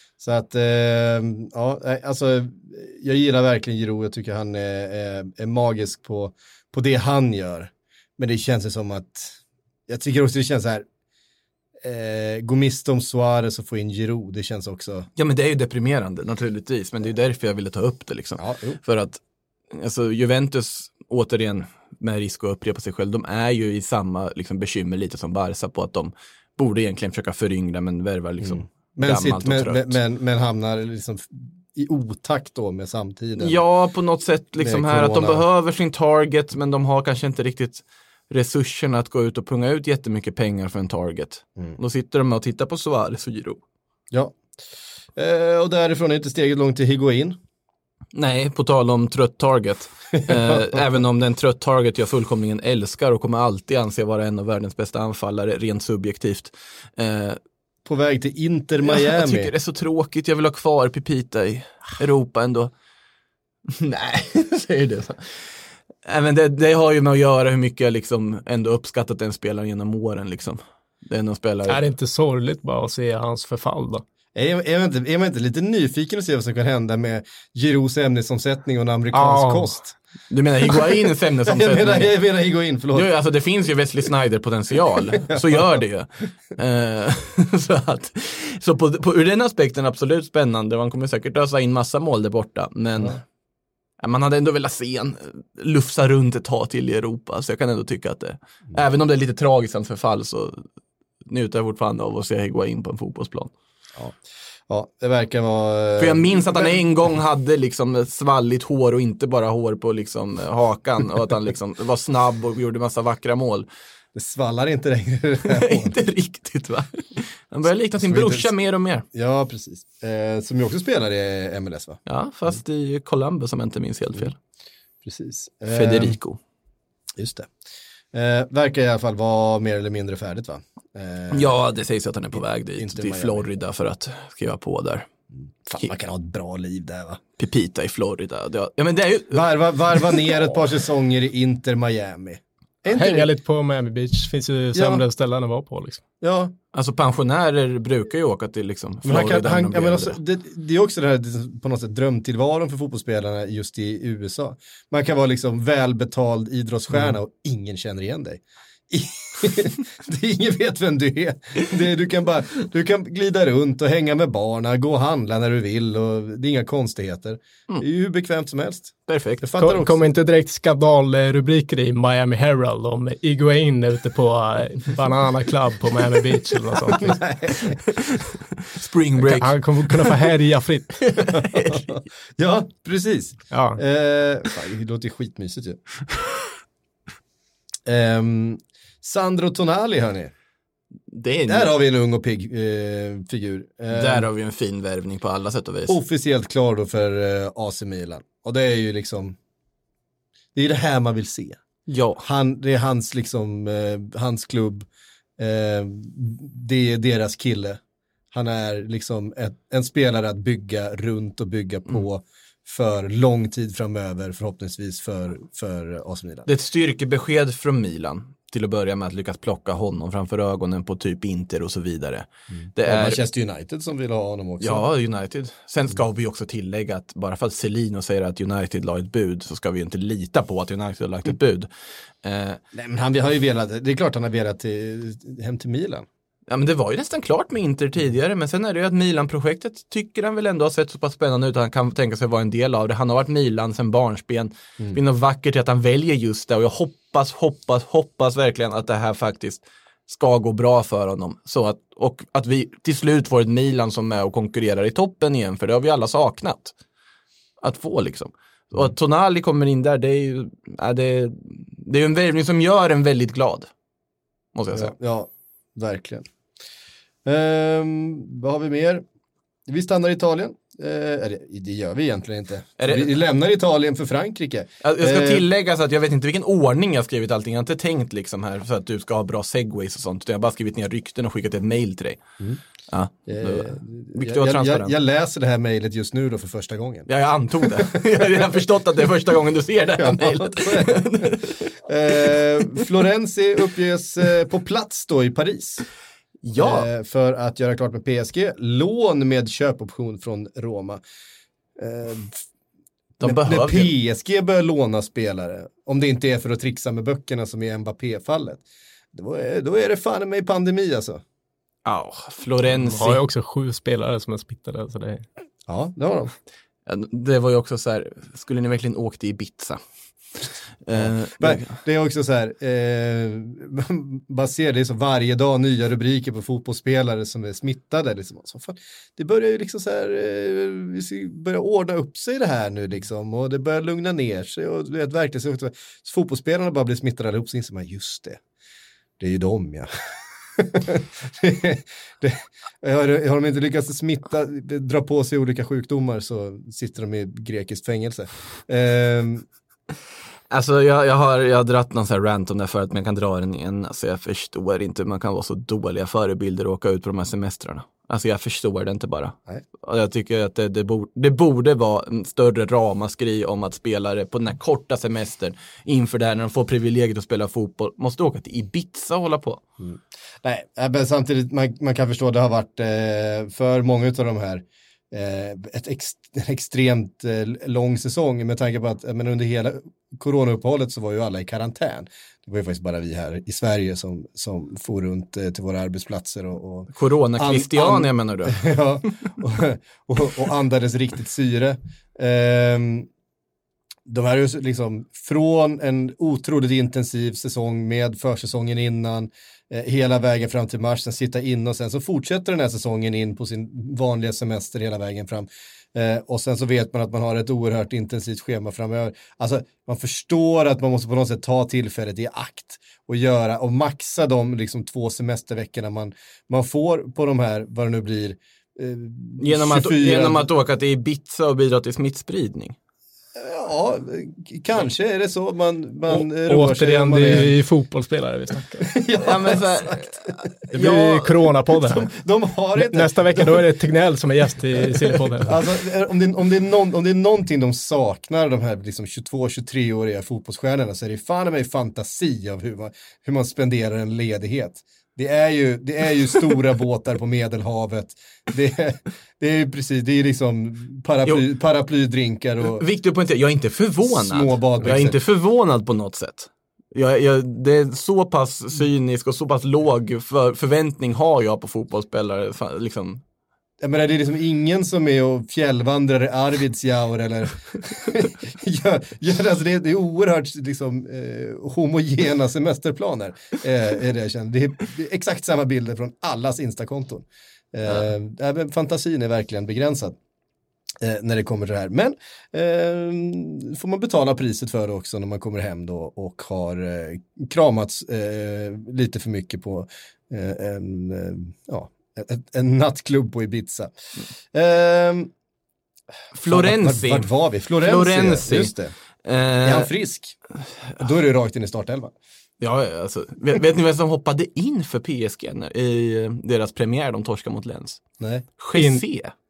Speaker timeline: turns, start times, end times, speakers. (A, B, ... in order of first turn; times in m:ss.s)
0:00.2-0:10.9 A
0:11.8-0:15.1 A
0:15.2-0:19.2 B
0:18.4-0:18.8 A
0:19.7-0:30.0 B
0:28.4-0:33.6 A
0:33.4-0:43.6 B
0:34.6-0:35.4 A
0:44.1-0:44.4 A
0:45.2-0:47.4 A
0:48.1-0:57.4 B
0:50.1-0:50.8 A
0:57.8-0:59.5 A
0:58.8-1:02.7 B
1:03.7-1:05.5 B
1:06.0-1:11.8 B
1:11.7-1:14.0 C
1:14.4-1:20.0 A
1:19.1-1:19.8 C
1:20.3-1:22.2 B
1:21.4-1:23.1 A
1:22.9-1:33.2 B
1:25.2-1:25.8 A
1:34.0-1:40.6 B
1:41.2-1:43.5 B
1:44.7-1:46.8 A
1:46.0-1:53.7 B
1:54.2-1:56.0 A
1:55.5-1:59.0 B
1:58.0-1:58.5 A
1:59.1-2:02.0 A
2:02.1-2:04.4 B
2:05.0-2:06.2 A
2:05.7-2:06.4 B
2:07.2-2:07.5 A
2:08.1-2:11.5 A
2:11.3-2:15.1 B
2:12.4-2:13.5 A
2:15.7-2:17.2 A
2:17.4-2:20.3 B
2:19.3-2:23.3 A
2:22.9-2:26.0 C
2:24.8-2:25.0 A
2:26.2-2:26.5 A
2:26.7-2:30.2 B
2:29.0-2:50.0 A
2:49.1-2:49.4 B
2:49.6-2:57.2 C
2:57.0-2:57.8 A
2:57.9-3:00.2 B
2:59.2-3:01.0 C
3:01.0-3:01.9 B
3:01.3-3:05.8 A
3:03.5-3:03.8 C
3:07.9-3:10.3 A
3:11.1-3:11.7 B
3:11.5-3:14.3 A
3:13.9-3:16.0 B
3:15.9-3:19.4 A
3:20.6-3:21.6 A
3:21.9-3:22.2 B
3:22.2-3:24.9 A
3:25.4-3:27.8 A
3:28.3-3:36.5 A
3:36.5-3:43.2 B
3:42.6-3:44.8 A
3:44.6-3:51.7 B
3:52.2-3:52.6 B
3:52.7-3:56.1 A
3:56.5-4:16.7 B
4:17.6-4:23.7 B
4:24.6-4:24.9 B
4:24.7-4:26.2 A
4:27.2-4:29.0 A
4:29.7-4:35.5 A
4:32.8-4:33.1 B
4:34.8-4:42.2 B
4:42.9-4:44.9 B
4:43.3-4:47.1 A
4:47.1-4:51.6 B
4:47.6-4:48.5 A
4:50.0-4:55.8 A
4:52.1-4:52.8 B
4:56.4-4:56.9 B
4:56.6-5:01.0 A
5:01.8-5:02.4 A
5:03.2-5:03.9 B
5:03.2-5:11.2 A
5:11.8-5:13.2 B
5:12.8-5:15.2 C
5:15.7-5:16.3 A
5:16.9-5:19.8 B
5:20.9-5:21.8 B
5:20.9-5:38.4 A
5:39.2-5:39.9 A
5:40.6-5:49.5 A
5:50.5-6:09.6 B
6:09.8-6:33.1 A
6:27.0-6:28.7 B
6:34.1-7:00.5 A
6:59.4-7:02.8 B
7:03.4-7:07.6 A
7:06.1-7:08.9 C
7:08.9-7:10.1 A
7:09.2-7:11.2 B
7:10.7-7:13.6 A
7:10.7-7:12.1 C
7:12.8-7:15.6 C
7:15.0-7:32.8 A
7:32.7-7:43.2 B
7:34.0-7:35.2 A
7:43.8-8:00.2 A
8:01.0-8:13.9 A
8:14.5-8:15.3 A
8:16.3-8:17.3 B
8:16.5-8:18.9 A
8:17.8-8:18.7 B
8:19.2-8:19.9 B
8:19.6-8:20.4 A
8:21.0-8:22.1 A
8:22.6-8:28.1 B
8:28.2-8:28.5 A
8:28.6-8:29.3 B
8:28.7-8:29.1 C